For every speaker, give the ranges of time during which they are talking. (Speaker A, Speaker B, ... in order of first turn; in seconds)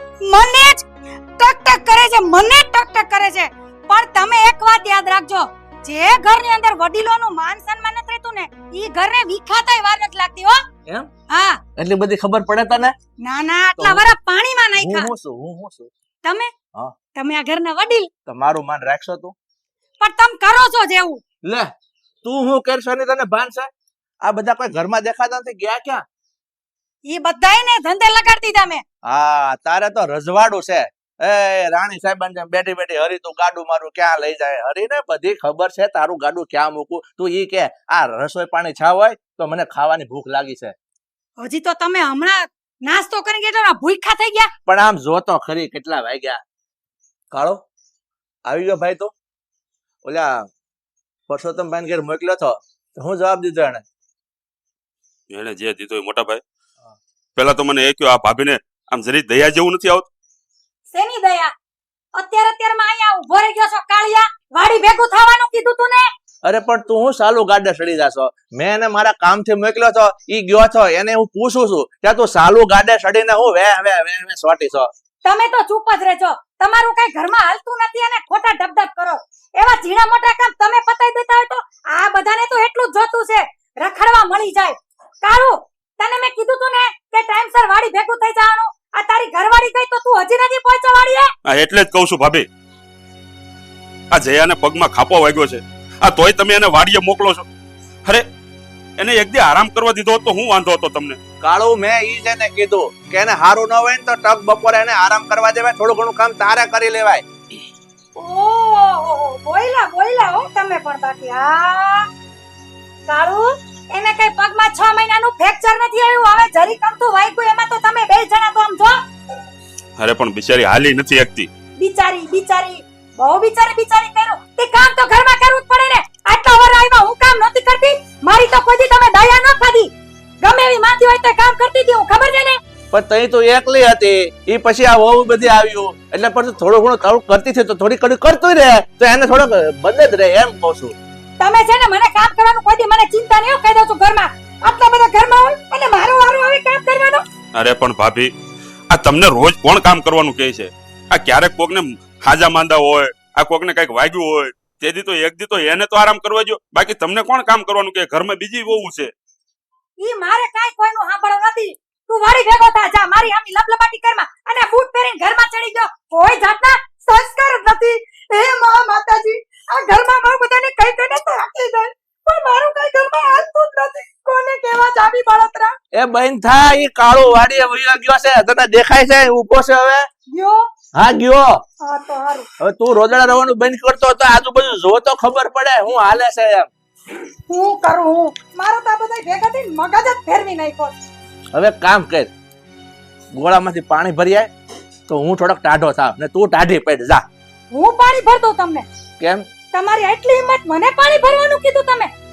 Speaker A: 0.2-0.8, 1.4-10.6, 11.3-11.6, 13.2-15.1, 16.2-16.5, 17.1-18.1, 20.0-21.2, 27.1-28.8, 41.4-44.5, 60.9-61.5, 62.1-66.1, 75.2-91.3, 108.2-112.1, 113.1-119.0, 121.8-129.9, 130.4-132.6, 141.4-147.2, 160.0-175.7, 180.3-180.6, 181.8-182.5, 187.5-190.9, 197.7-198.8, 199.7-202.1
Speaker B: 11.8-12.9, 13.8-14.0, 14.8-15.9, 18.3-19.3, 21.4-21.7, 22.2-23.7, 24.2-26.0, 29.1-40.7, 44.6-46.4, 47.3-47.6, 48.5-49.1, 50.0-50.5, 51.3-53.8, 66.4-74.9, 101.4-107.2, 132.9-140.9, 175.9-180.0, 181.0-181.6, 182.6-186.7, 191.5-192.3, 193.3-194.5, 195.1-197.2, 199.2-199.4
Speaker C: 55.3-56.4, 57.4-60.1, 91.5-92.5, 94.1-97.4, 99.0-101.2, 120.0-121.5, 147.5-148.3, 148.9-159.1